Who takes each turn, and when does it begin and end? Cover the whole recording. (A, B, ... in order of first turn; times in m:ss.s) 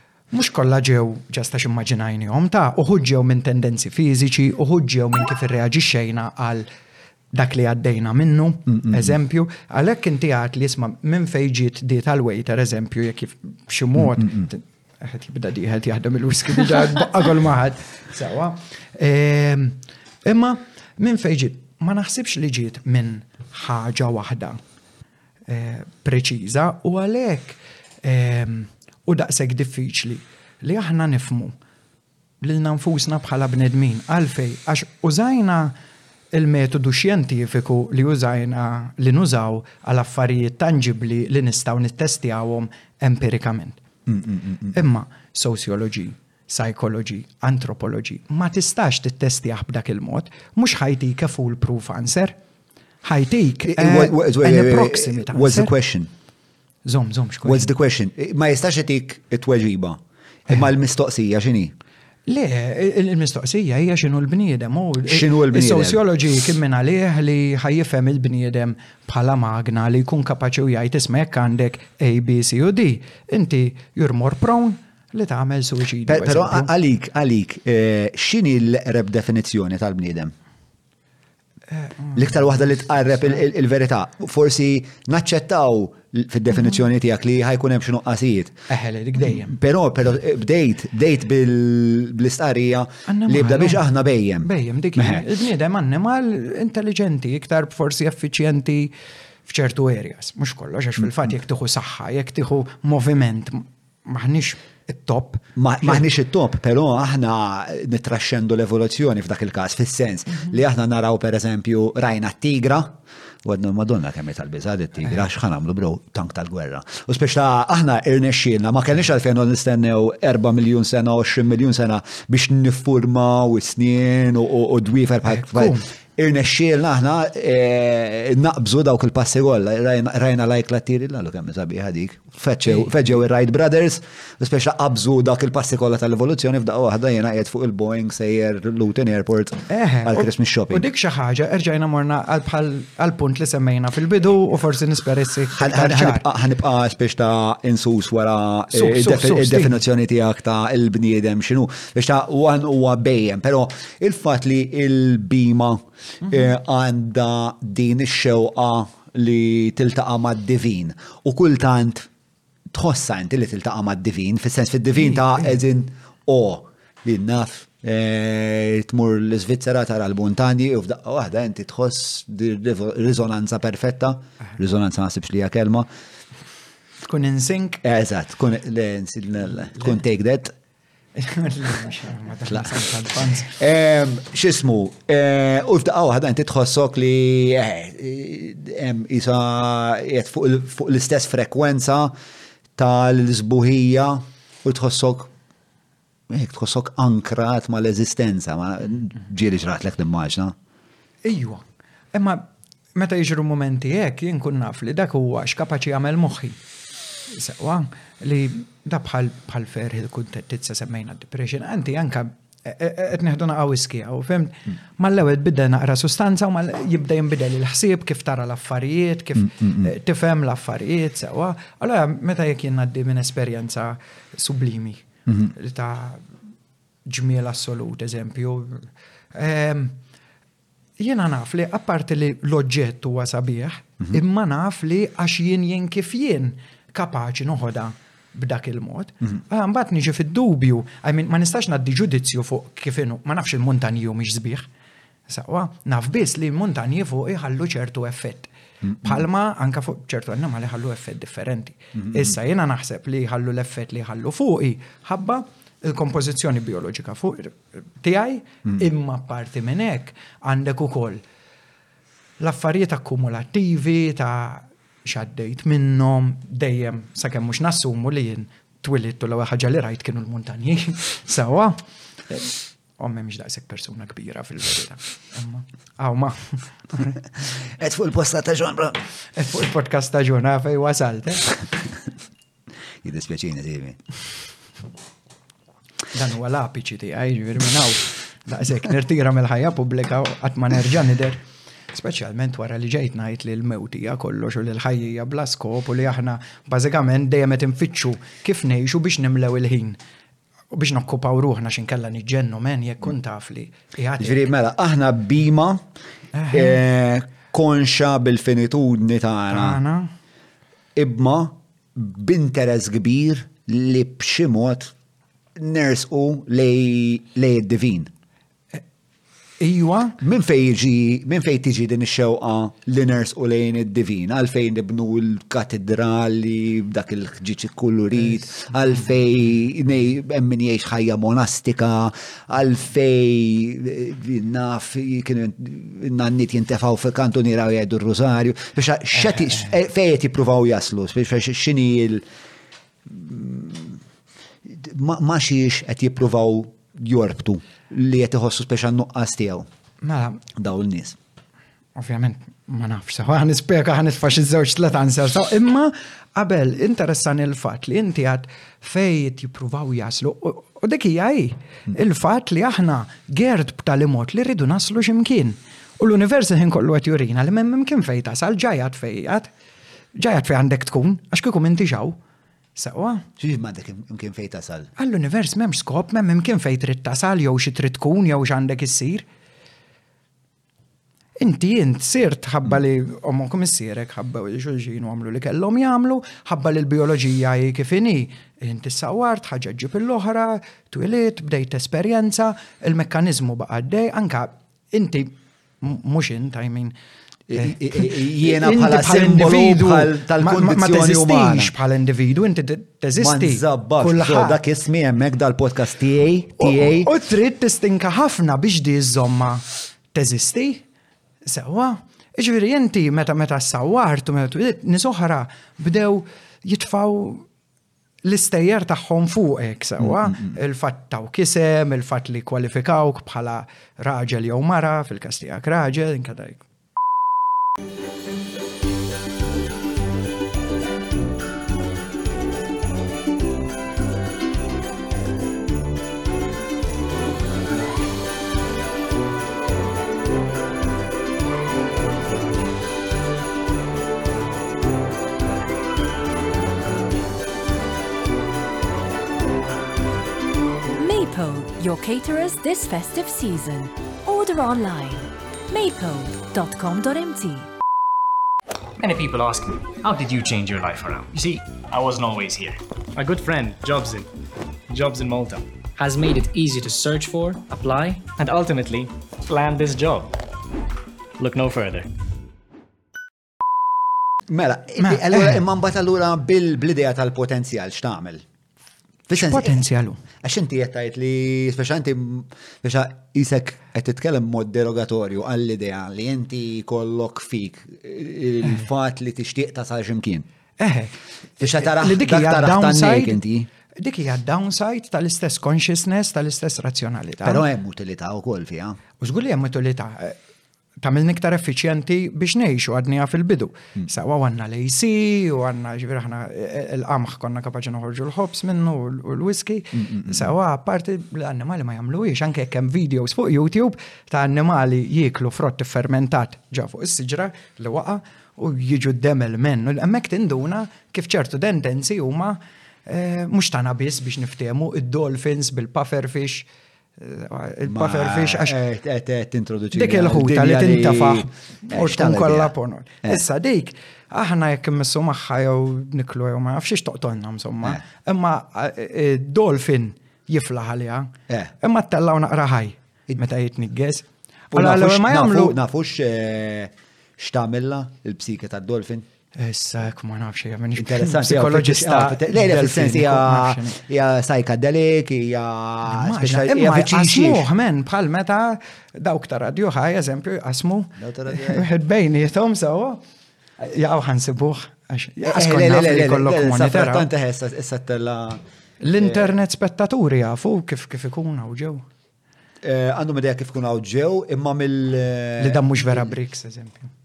0:00.3-0:06.7 A
0:07.3-0:24.6 A
0:25.5-0:31.5 A
0:32.4-0:35.7 A
0:36.3-0:43.8 A
0:44.1-0:44.7 B
0:44.7-0:52.4 A
0:53.0-0:55.7 A
0:53.6-0:56.1 B
0:56.8-0:57.7 A
0:57.4-1:01.7 B
1:02.3-1:16.7 A
1:05.0-1:06.0 B
1:16.1-1:20.3 B
1:21.7-1:22.2 A
1:22.1-1:28.6 B
1:28.7-1:29.5 A
1:29.2-1:35.3 B
1:33.1-1:33.9 A
1:34.4-1:38.9 A
1:39.5-1:46.0 A
1:45.6-2:20.9 B
2:05.2-2:05.8 A
2:19.7-2:26.2 A
2:25.5-2:42.1 B
2:28.7-2:29.8 A
2:42.7-2:55.9 B
2:57.0-2:57.8 A
2:57.8-3:00.5 B
3:01.2-3:03.6 A
3:03.5-3:12.1 B
3:12.8-3:15.3 B
3:16.3-3:20.5 B
3:21.2-3:26.6 A
3:27.3-3:46.2 A
3:47.0-3:50.0 A
3:51.0-4:04.7 A
4:05.3-4:08.5 A
4:09.0-4:21.2 A
4:22.4-4:37.2 A
4:37.4-4:39.0 B
4:39.3-4:41.6 A
4:43.0-4:44.0 B
4:46.1-4:51.4 A
4:51.9-5:00.0 A
5:00.7-5:04.5 A
5:04.2-5:05.8 B
5:06.4-5:06.8 A
5:06.5-5:09.8 B
5:09.5-5:10.1 A
5:11.0-5:14.9 B
5:15.6-5:18.1 B
5:19.6-5:20.2 A
5:20.2-5:42.2 B
5:43.0-5:44.0 B
5:44.6-5:49.7 B
5:50.0-5:50.4 A
5:50.5-5:51.2 B
5:52.0-6:09.5 A
6:10.2-6:12.2 A
6:12.8-6:13.2 A
6:13.4-6:14.9 B
6:15.0-6:19.2 A
6:21.4-6:36.9 A
6:37.5-6:41.7 B
6:37.6-6:44.6 A
6:43.2-6:47.1 B
6:46.6-6:50.8 A
6:51.4-6:57.4 A
6:58.2-7:06.6 A
7:00.0-7:00.5 B
7:30.9-7:37.7 C
7:39.0-7:44.3 D
7:44.9-7:50.4 D
7:51.4-7:52.1 D
7:54.5-7:58.4 B
7:55.0-7:55.6 A
7:59.3-7:59.8 B
7:59.3-8:00.2 A
8:00.4-8:10.4 B
8:10.8-8:13.4 A
8:11.6-8:13.7 B
8:14.0-8:17.6 A
8:17.4-8:19.0 B
8:19.2-8:20.4 A
8:21.0-8:46.7 A
8:30.1-8:30.5 B
8:47.2-8:48.8 A
8:47.8-8:52.7 B
8:49.9-9:05.8 A
9:04.7-9:09.2 B
9:09.6-9:14.0 A
9:11.0-9:17.7 B
9:16.0-9:23.2 A
9:21.2-9:21.9 B
9:23.8-9:27.3 A
9:25.4-9:28.6 B
9:29.0-9:32.0 A
9:29.2-9:29.5 B
9:32.8-9:36.3 B
9:35.6-9:37.1 A